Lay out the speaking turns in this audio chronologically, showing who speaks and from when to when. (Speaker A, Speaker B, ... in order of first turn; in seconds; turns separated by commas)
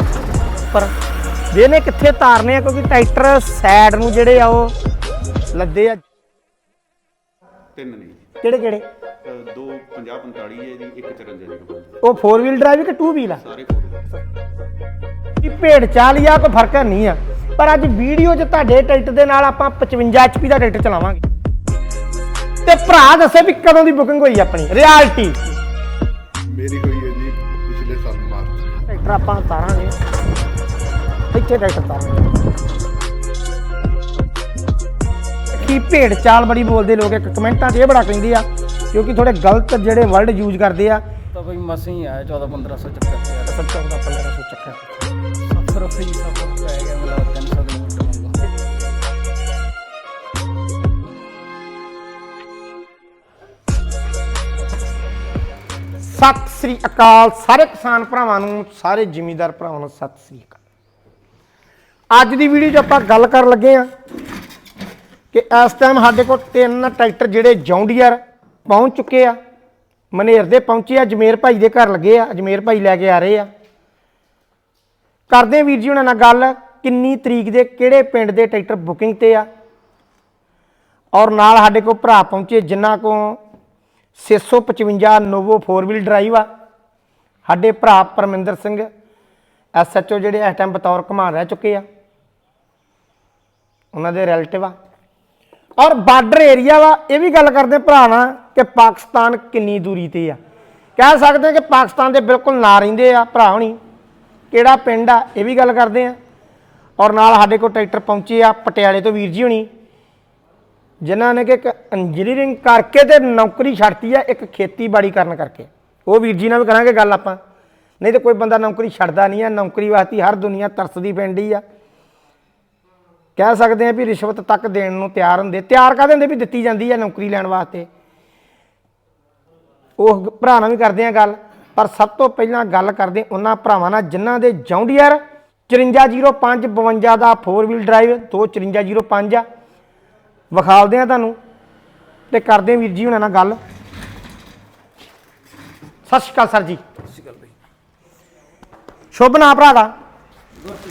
Speaker A: 0.6-0.9, Speaker A: 1.5-4.7, Speaker A: 5.5-6.0, Speaker B: 7.8-8.2, Speaker A: 8.4-8.8, Speaker B: 9.2-12.0, Speaker A: 12.0-13.4, Speaker B: 13.4-14.1, Speaker A: 15.4-21.2, Speaker A: 22.6-25.4, Speaker C: 26.5-28.7, Speaker A: 28.9-30.0, Speaker A: 31.3-32.5, Speaker A: 35.6-41.0, Speaker D: 41.3-43.6, Speaker A: 43.5-45.0, Speaker D: 45.5-48.5, Speaker A: 56.1-60.6, Speaker A: 62.1-63.9, Speaker A: 65.3-69.4, Speaker A: 70.1-73.5, Speaker A: 75.3-79.5, Speaker A: 81.1-83.4, Speaker A: 84.2-86.5, Speaker A: 87.5-88.9, Speaker A: 89.8-91.8, Speaker A: 93.9-94.8, Speaker A: 95.8-100.4, Speaker A: 101.0-103.8, Speaker A: 104.5-106.2, Speaker A: 107.0-109.7, Speaker A: 111.0-117.4, Speaker A: 118.0-121.6, Speaker A: 123.4-127.9, Speaker A: 130.0-139.5, Speaker A: 140.5-141.4, Speaker A: 142.3-143.6, Speaker A: 146.1-146.8, Speaker D: 147.1-147.5, Speaker A: 149.1-149.9